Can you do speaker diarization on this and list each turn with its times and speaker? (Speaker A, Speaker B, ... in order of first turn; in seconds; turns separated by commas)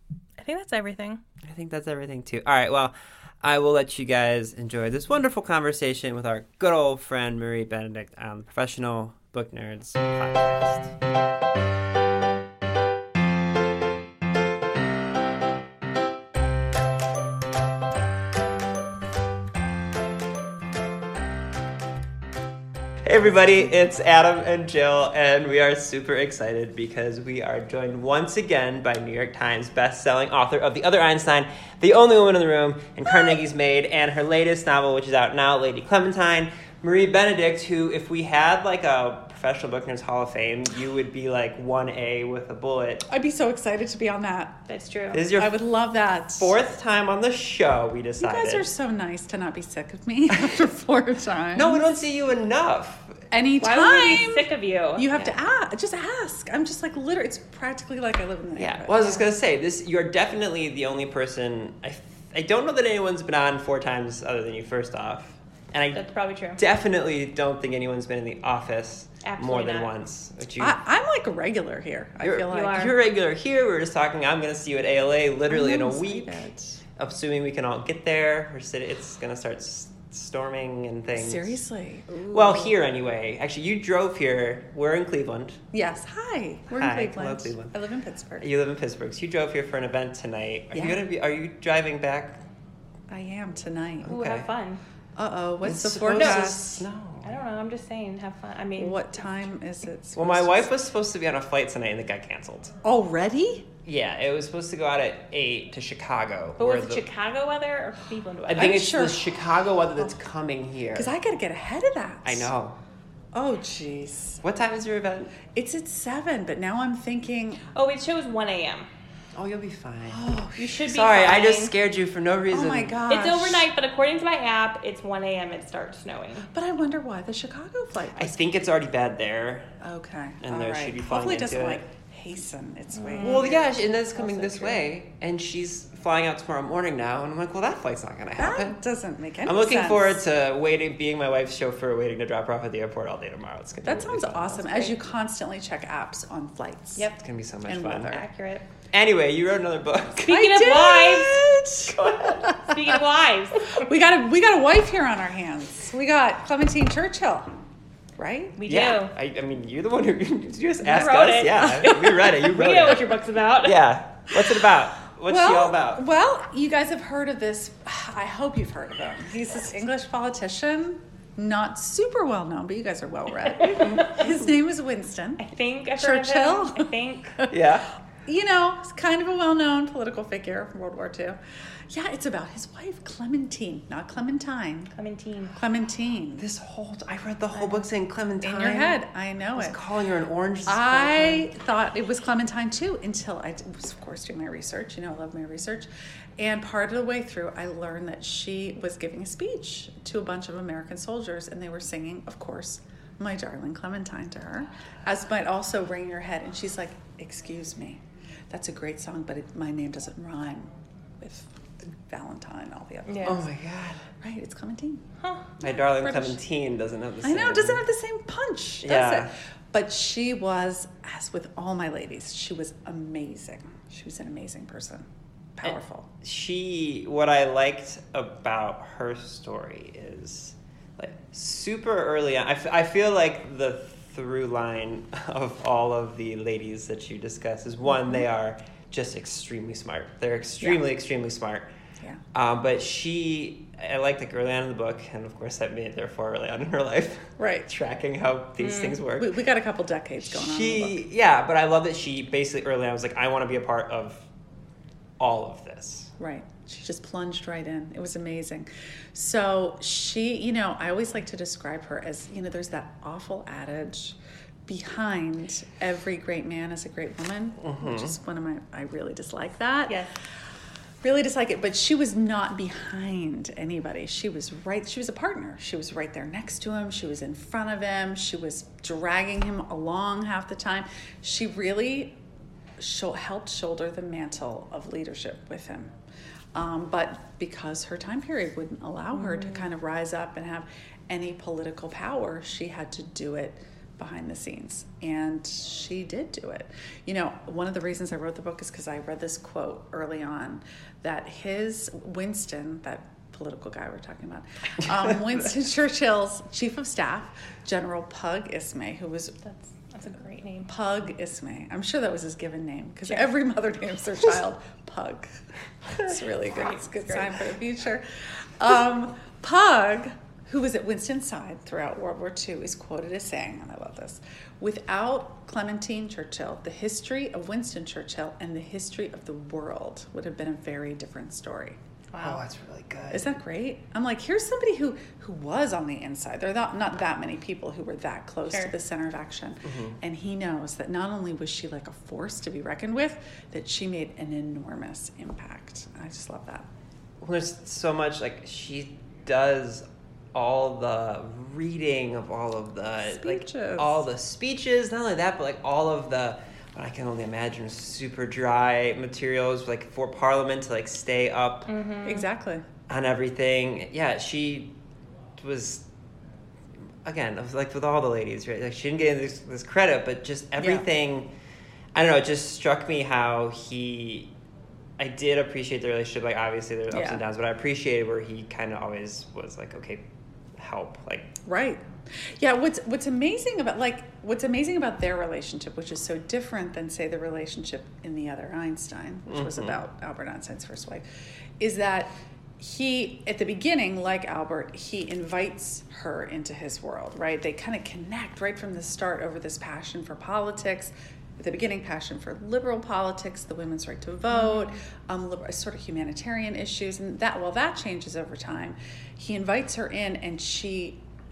Speaker A: 0.4-1.2, Speaker B: 1.4-10.9, Speaker B: 23.0-43.1, Speaker C: 43.1-44.7, Speaker A: 44.7-45.2, Speaker B: 45.1-45.6, Speaker C: 45.3-46.6, Speaker B: 46.4-48.7, Speaker C: 48.2-51.9, Speaker B: 51.5-53.2, Speaker C: 53.3-59.2, Speaker A: 53.6-55.3, Speaker B: 58.5-70.8, Speaker A: 65.9-66.6, Speaker A: 69.2-69.9, Speaker C: 70.6-72.9, Speaker B: 72.2-76.4, Speaker A: 72.5-72.9, Speaker C: 75.5-76.8, Speaker B: 77.0-81.6, Speaker C: 81.2-82.8, Speaker B: 82.3-85.6, Speaker C: 85.7-88.5, Speaker B: 86.7-87.8, Speaker B: 88.4-92.4, Speaker C: 90.7-91.0, Speaker C: 93.1-94.1, Speaker B: 94.0-94.5, Speaker A: 94.1-94.8, Speaker C: 95.2-96.9, Speaker B: 95.6-97.4, Speaker A: 97.2-99.0, Speaker C: 98.8-100.7, Speaker B: 100.2-102.8, Speaker C: 102.8-103.7, Speaker B: 103.8-107.0, Speaker A: 106.6-108.8, Speaker B: 108.5-111.1, Speaker C: 108.6-109.3, Speaker C: 110.9-112.5, Speaker B: 112.2-112.8, Speaker C: 113.3-114.4, Speaker B: 114.4-115.4, Speaker C: 115.5-117.7, Speaker A: 117.7-118.9, Speaker B: 119.3-120.3, Speaker C: 120.1-120.8, Speaker A: 120.6-121.7, Speaker B: 120.9-123.0, Speaker C: 122.5-123.7, Speaker A: 123.1-126.5, Speaker C: 126.5-128.4, Speaker B: 128.2-129.8, Speaker C: 129.8-134.7, Speaker B: 130.4-131.9, Speaker A: 132.9-133.6, Speaker B: 133.2-138.8, Speaker C: 138.4-140.2, Speaker B: 139.4-144.9, Speaker C: 143.8-147.1, Speaker B: 147.2-148.2, Speaker C: 147.7-148.2, Speaker A: 148.1-148.7, Speaker B: 148.9-152.6, Speaker A: 150.3-151.3, Speaker C: 150.3-152.8, Speaker A: 152.6-153.8, Speaker C: 153.7-157.5, Speaker C: 158.2-158.6, Speaker A: 158.6-159.1, Speaker B: 158.7-166.0, Speaker A: 160.8-163.8, Speaker C: 164.4-164.6, Speaker C: 165.3-175.5, Speaker B: 173.6-174.2, Speaker A: 175.4-177.4, Speaker C: 176.0-177.7, Speaker B: 177.5-177.9, Speaker C: 178.2-184.9, Speaker A: 184.9-185.6, Speaker C: 185.5-186.4, Speaker B: 186.4-189.0, Speaker C: 188.4-189.8, Speaker B: 189.6-191.5, Speaker C: 190.7-195.9, Speaker C: 196.4-213.5, Speaker A: 213.1-213.4, Speaker B: 213.2-214.1, Speaker C: 214.2-215.1, Speaker A: 215.2-215.5, Speaker C: 215.6-216.4, Speaker B: 215.6-217.8, Speaker C: 217.2-226.1, Speaker B: 218.8-219.3, Speaker B: 225.7-241.7, Speaker B: 242.3-249.4, Speaker C: 247.4-247.7, Speaker A: 248.6-249.0, Speaker C: 249.2-251.0, Speaker B: 250.2-254.3, Speaker B: 255.2-256.1, Speaker C: 256.2-270.1, Speaker B: 267.6-268.1, Speaker C: 271.0-282.2, Speaker C: 282.8-285.9, Speaker C: 286.5-309.4, Speaker A: 289.1-289.7, Speaker A: 309.4-310.7, Speaker C: 310.7-331.8, Speaker A: 316.5-317.3, Speaker A: 332.1-332.4, Speaker B: 332.2-333.3, Speaker C: 333.1-346.7, Speaker B: 339.6-340.0, Speaker B: 347.2-361.7, Speaker C: 353.1-354.0, Speaker A: 361.7-362.2, Speaker C: 362.1-362.7, Speaker B: 362.9-364.8, Speaker B: 365.4-365.8, Speaker B: 367.1-371.3, Speaker C: 370.6-370.9, Speaker B: 371.9-374.3, Speaker B: 375.0-380.1, Speaker C: 376.9-377.2, Speaker B: 380.6-381.4, Speaker C: 381.4-391.1, Speaker B: 389.3-389.8, Speaker C: 391.6-411.0, Speaker A: 404.3-404.8